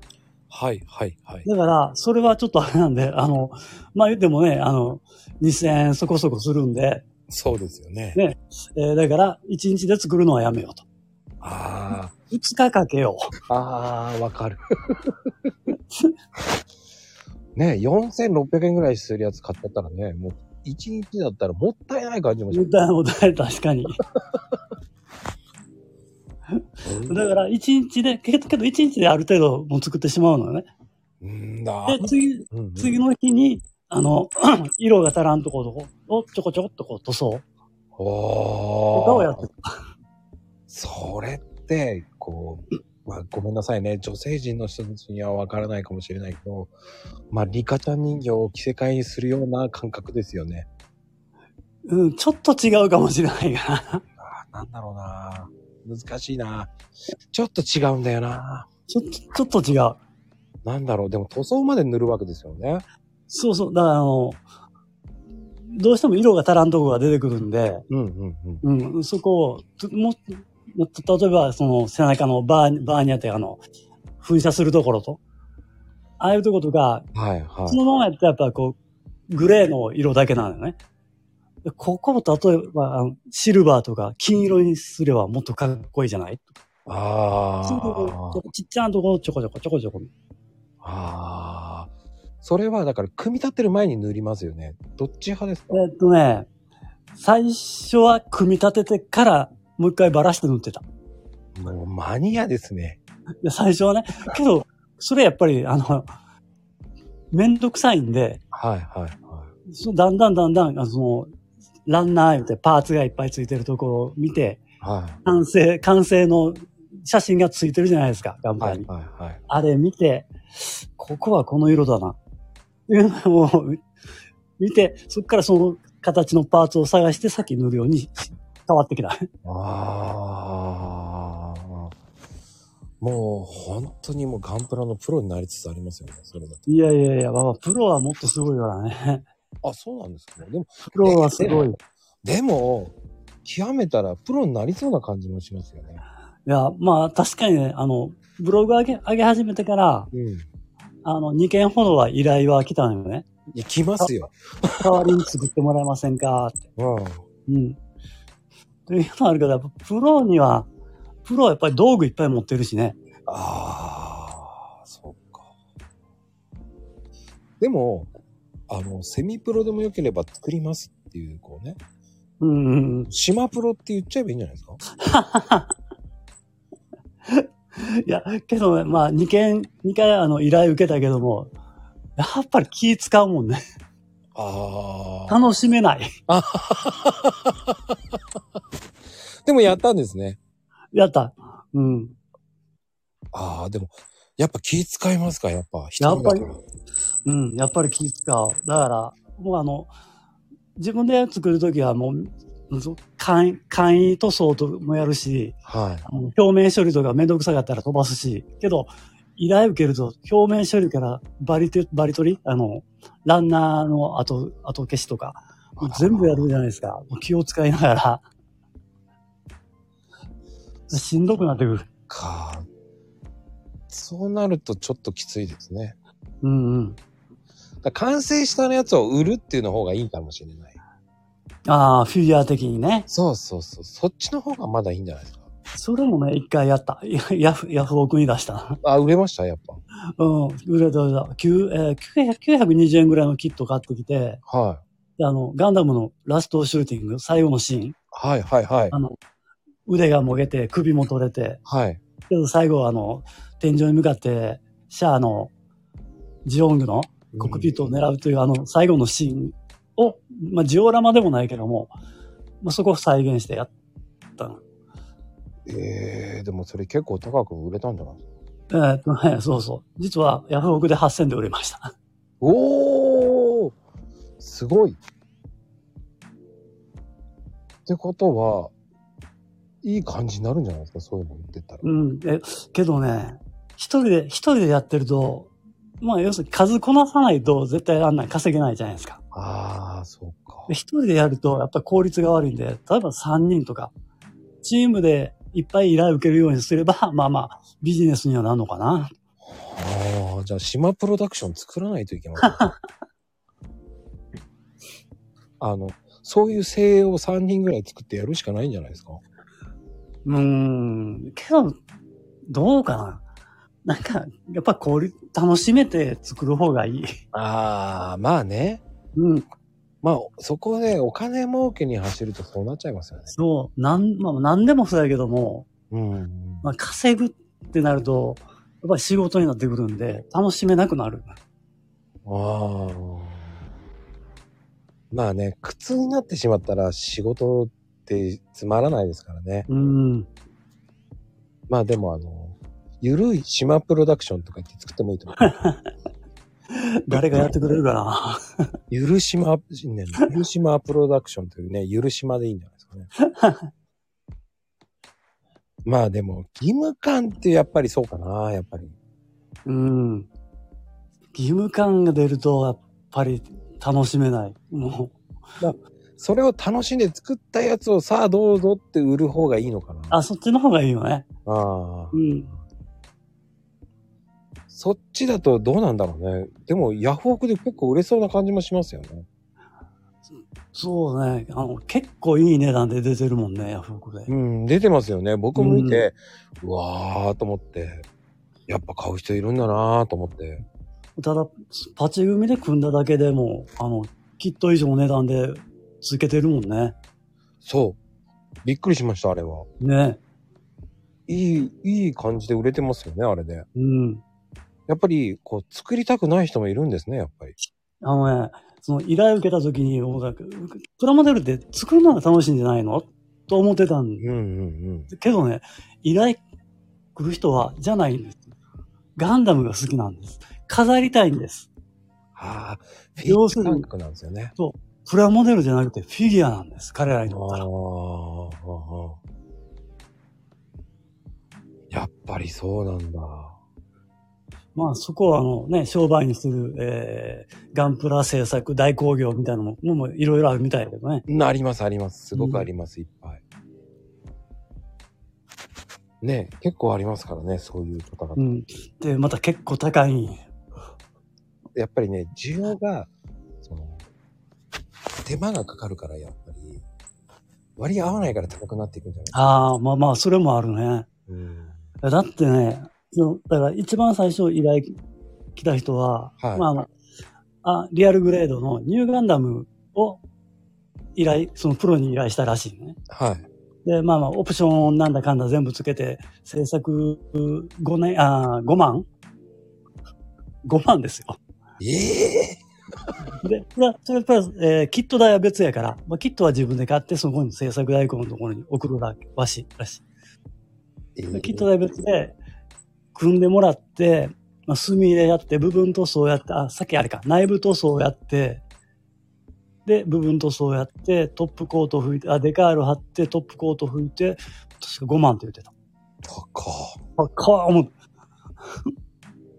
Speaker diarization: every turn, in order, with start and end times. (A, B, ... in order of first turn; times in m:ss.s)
0:00.5-0:01.5 A
0:01.4-0:07.0 B
0:07.3-0:08.2 A
0:08.2-0:10.8 B
0:11.4-0:12.1 A
0:12.3-0:13.3 B
0:13.5-0:15.1 A
0:17.5-0:22.7 A
0:22.5-0:24.0 B
0:26.8-0:27.2 A
0:27.1-0:30.7 B
0:31.2-0:33.0 A
0:31.9-0:37.4 B
0:37.9-0:39.4 A
0:38.9-0:39.8 B
0:40.7-0:46.7 A
0:47.3-0:50.7 A
0:51.9-0:54.0 B
0:54.1-0:56.7 A
0:57.3-0:58.7 A
0:58.9-1:00.0 B
1:00.6-1:02.8 A
1:03.3-1:04.4 B
1:05.7-1:07.8 B
1:07.9-1:08.6 A
1:08.6-1:13.6 B
1:14.2-1:15.2 B
1:16.2-1:17.1 B
1:17.1-1:17.8 A
1:17.7-1:18.8 B
1:19.3-1:20.8 B
1:21.6-1:26.5 B
1:26.8-1:28.4 A
1:27.6-1:30.1 B
1:30.8-1:35.8 A
1:35.7-1:36.5 B
1:37.1-1:40.8 B
1:41.5-1:43.0 A
1:43.4-1:46.1 B
1:47.3-1:48.4 B
1:48.5-1:49.5 A
1:49.7-1:51.3 B
1:51.8-1:54.6 B
1:54.8-1:55.2 A
1:55.2-1:58.9 B
1:58.6-1:59.4 A
1:59.5-2:02.2 B
2:02.9-2:03.8 B
2:04.6-2:09.3 B
2:09.4-2:11.9 A
2:13.0-2:16.6 A
2:16.7-2:19.2 B
2:19.6-2:21.7 A
2:20.9-2:21.8 B
2:22.2-2:26.0 A
2:26.4-2:30.1 B
2:30.1-2:30.5 A
2:31.0-2:33.3 B
2:33.5-2:35.1 A
2:34.8-2:36.6 B
2:36.8-2:37.2 A
2:37.5-2:37.8 B
2:38.9-2:40.7 B
2:41.2-2:43.0 B
2:43.3-2:45.5 A
2:47.6-2:48.1 A
2:48.7-2:51.8 A
2:52.4-2:53.1 B
2:53.1-2:54.8 A
2:55.0-2:55.7 B
2:57.3-3:01.5 B
3:02.2-3:03.6 B
3:04.3-3:05.4 A
3:05.3-3:06.1 B
3:06.3-3:07.9 A
3:09.4-3:10.4 A
3:10.9-3:12.2 B
3:13.3-3:16.6 A
3:16.0-3:16.5 B
3:17.2-3:19.9 B
3:20.8-3:38.2 B
3:25.6-3:26.0 A
3:35.8-3:36.4 A
3:40.9-3:41.9 B
3:42.1-3:42.7 A
3:43.9-3:46.0 A
3:46.4-3:47.0 B
3:47.8-3:50.8 A
3:51.6-3:53.1 B
3:53.1-3:55.5 A
3:55.7-3:58.8 B
3:58.8-3:59.8 A
4:00.2-4:04.4 B
4:04.5-4:04.8 A
4:05.2-4:08.0 B
4:08.1-4:09.0 A
4:09.9-4:11.6 B
4:11.6-4:12.0 A
4:12.3-4:15.5 B
4:16.4-4:21.9 B
4:17.3-4:17.9 A
4:22.6-4:23.7 B
4:24.4-4:24.6 B
4:25.6-4:28.2 A
4:28.7-4:31.9 B
4:32.4-4:33.7 A
4:34.4-4:35.0 A
4:37.8-4:38.7 A
4:39.8-4:42.0 A
4:41.8-4:49.2 B
4:49.3-4:50.7 A
4:50.7-4:53.9 B
4:54.6-4:59.1 B
4:59.4-5:02.7 A
5:02.5-5:02.7 B
5:05.6-5:09.2 A
5:10.2-5:11.8 B
5:12.5-5:13.2 B
5:13.8-5:17.1 B
5:17.3-5:18.8 A
5:19.1-5:19.4 B
5:20.0-5:23.3 A
5:23.3-5:25.7 B
5:25.9-5:26.7 A
5:26.6-5:31.4 B
5:32.2-5:33.6 A
5:35.1-5:39.7 A
5:39.7-5:40.3 B
5:41.7-5:45.5 A
5:45.4-5:45.8 B
5:46.7-5:48.4 B
5:47.1-5:47.4 A
5:48.9-5:53.1 A
5:53.2-5:53.7 B
5:55.8-5:59.0 A
5:59.6-6:00.3 B
6:01.3-6:05.2 B
6:05.6-6:10.2 A
6:10.1-6:11.3 B
6:11.4-6:12.2 A
6:12.1-6:12.5 B
6:14.7-6:19.2 A
6:20.3-6:24.3 B
6:24.3-6:28.0 A
6:25.5-6:26.0 B
6:28.7-6:30.6 A
6:31.2-6:36.9 B
6:37.6-6:38.0 A
6:38.6-6:39.7 A
6:39.8-6:40.2 B
6:41.3-6:43.6 A
6:43.8-6:44.2 B
6:44.9-6:47.5 A
6:48.0-6:54.2 B
6:54.2-6:55.1 A
6:55.1-6:56.4 B
6:57.1-6:58.5 B
6:59.2-7:01.7 B
7:02.3-7:04.5 A
7:03.2-7:03.8 B
7:04.6-7:07.6 B
7:07.2-7:09.2 A
7:11.9-7:13.6 A
7:14.7-7:21.2 B
7:21.3-7:23.4 A
7:22.3-7:22.7 B
7:26.2-7:28.4 A
7:28.4-7:30.4 B
7:31.7-7:33.1 A
7:33.6-7:34.0 A
7:35.2-7:36.8 A
7:37.8-7:39.4 A
7:39.3-7:41.1 B
7:41.3-7:41.8 A
7:42.0-7:44.9 B
7:45.6-7:46.9 B
7:46.4-7:46.6 A
7:47.6-7:50.2 B
7:51.2-7:53.0 B
7:53.1-7:53.4 A
7:53.8-7:59.0 B
8:00.6-8:01.4 B
8:01.8-8:02.6 A
8:03.4-8:10.0 B
8:11.2-8:11.7 A
8:11.3-8:12.4 B
8:13.1-8:18.6 B
8:19.8-8:25.7 B
8:26.2-8:27.0 A
8:27.2-8:27.9 B